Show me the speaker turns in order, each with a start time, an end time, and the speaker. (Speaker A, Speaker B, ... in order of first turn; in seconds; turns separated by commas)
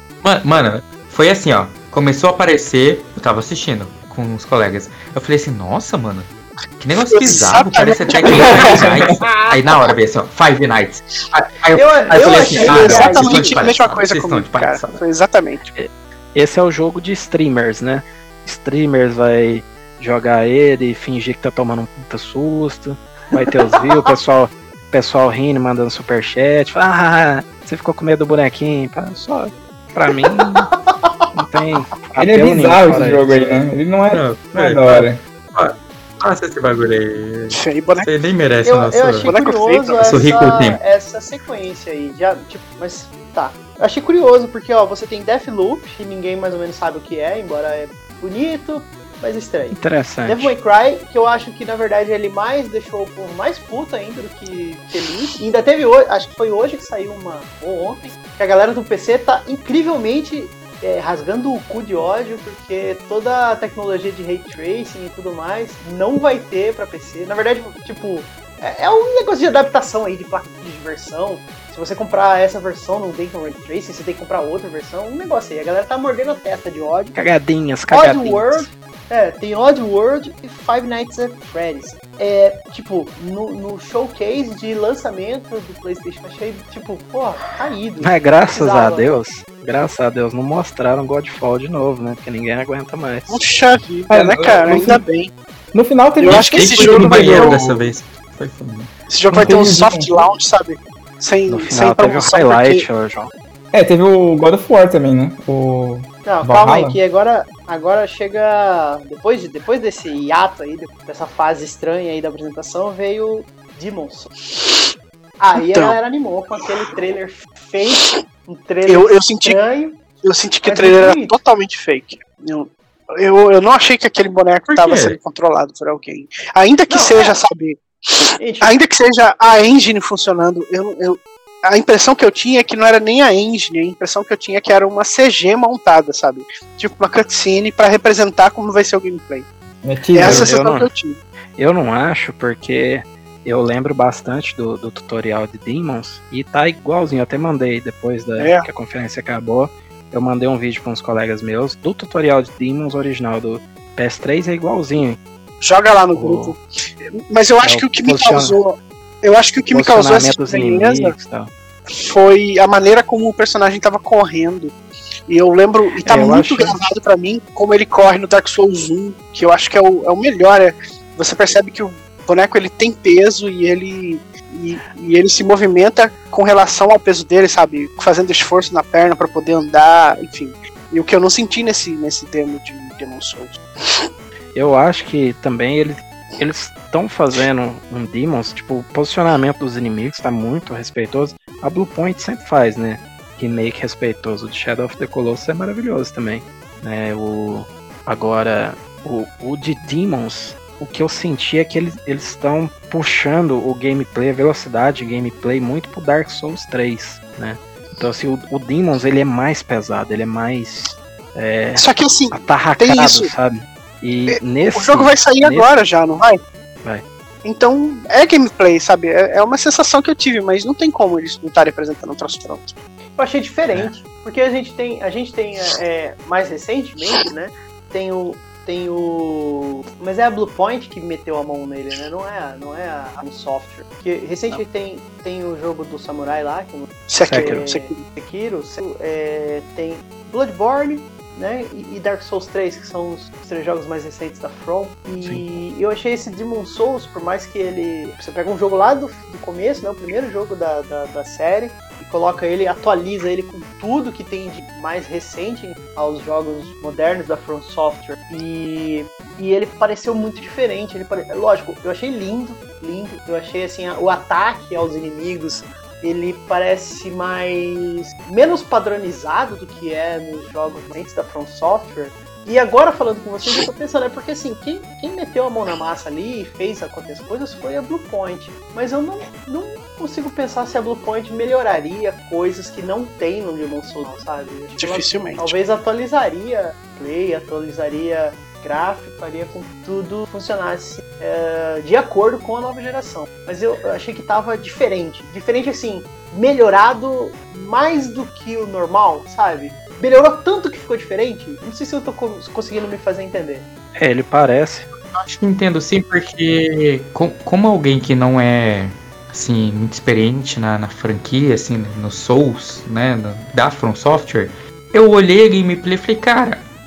Speaker A: 0.2-15.0, Speaker B: 7.1-8.9, Speaker C: 8.3-9.2, Speaker D: 8.4-8.6, Speaker D: 9.2-9.5, Speaker D: 11.7-13.6, Speaker C: 12.2-13.2, Speaker B: 12.5-15.7, Speaker E: 15.7-30.7, Speaker D: 30.4-31.2, Speaker E: 31.3-33.5, Speaker C: 32.2-35.2, Speaker A: 34.1-39.3, Speaker B: 37.5-38.1, Speaker D: 38.6-77.1, Speaker B: 39.2-40.3, Speaker A: 40.0-40.8, Speaker E: 49.7-50.5, Speaker E: 77.1-78.7, Speaker D: 77.9-89.2, Speaker E: 88.0-93.4, Speaker B: 93.3-95.3, Speaker C: 94.1-95.0, Speaker C: 95.7-97.9, Speaker B: 96.2-97.6, Speaker A: 96.2-98.9, Speaker B: 99.1-102.8, Speaker C: 99.3-100.2, Speaker E: 101.5-103.3, Speaker C: 103.7-107.0, Speaker D: 106.2-114.3, Speaker B: 114.5-114.9, Speaker D: 115.4-120.0, Speaker B: 115.5-116.0, Speaker B: 117.9-118.2, Speaker B: 118.8-119.6, Speaker B: 120.2-139.5, Speaker D: 120.7-121.4, Speaker A: 124.7-125.2, Speaker D: 126.9-127.4, Speaker D: 128.4-128.7, Speaker C: 139.8-140.5, Speaker B: 140.1-141.2, Speaker E: 140.2-140.9, Speaker E: 141.6-155.2, Speaker B: 148.4-148.7, Speaker B: 155.6-156.6, Speaker E: 156.1-156.5, Speaker B: 157.3-161.1, Speaker E: 157.6-158.6, Speaker E: 159.7-161.5, Speaker B: 162.0-164.8, Speaker B: 165.3-184.1, Speaker E: 166.0-166.8, Speaker E: 184.5-215.7, Speaker B: 211.8-213.3, Speaker B: 214.3-216.4, Speaker B: 217.4-222.7, Speaker D: 223.2-303.6, Speaker B: 237.1-238.0, Speaker E: 237.2-237.7, Speaker B: 284.8-285.5, Speaker E: 303.9-304.9, Speaker A: 304.9-316.6